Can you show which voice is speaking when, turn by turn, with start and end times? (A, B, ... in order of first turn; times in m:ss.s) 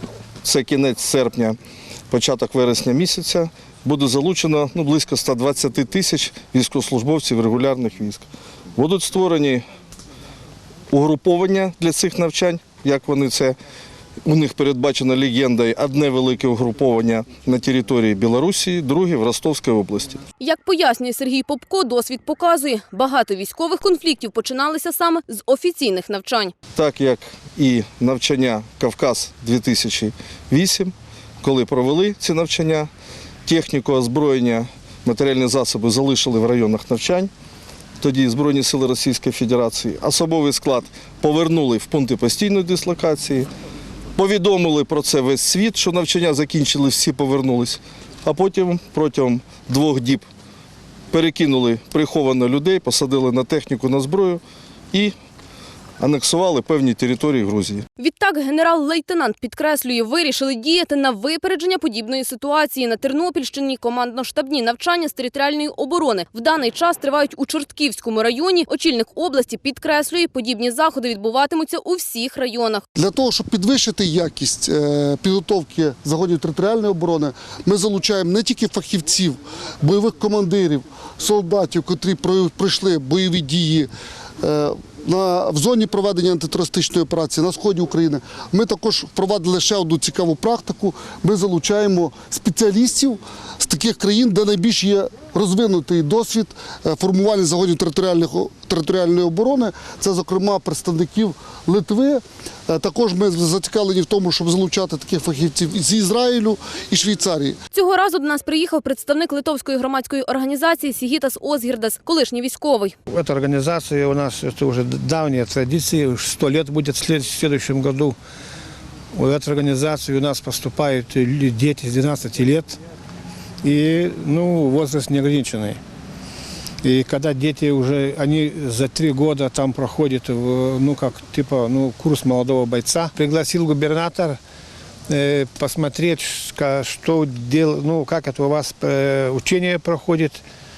0:00.4-0:01.6 A
0:02.1-0:09.6 A
0:10.9-0:13.6 A
0:14.2-0:20.2 A
0:20.4-0:26.5 B
0:26.8-0:32.9 A
0:33.5-0:37.3 A
0:38.0-0:43.5 A
0:44.2-0:50.3 A
0:51.1-0:55.1 A
0:56.0-0:57.8 A
0:58.0-1:12.8 B
1:13.0-1:47.6 C
1:47.7-1:53.0 B
1:53.1-1:58.2 D
1:59.1-2:02.8 D
2:03.6-2:05.8 D
2:06.8-2:14.4 D
2:15.1-2:20.4 D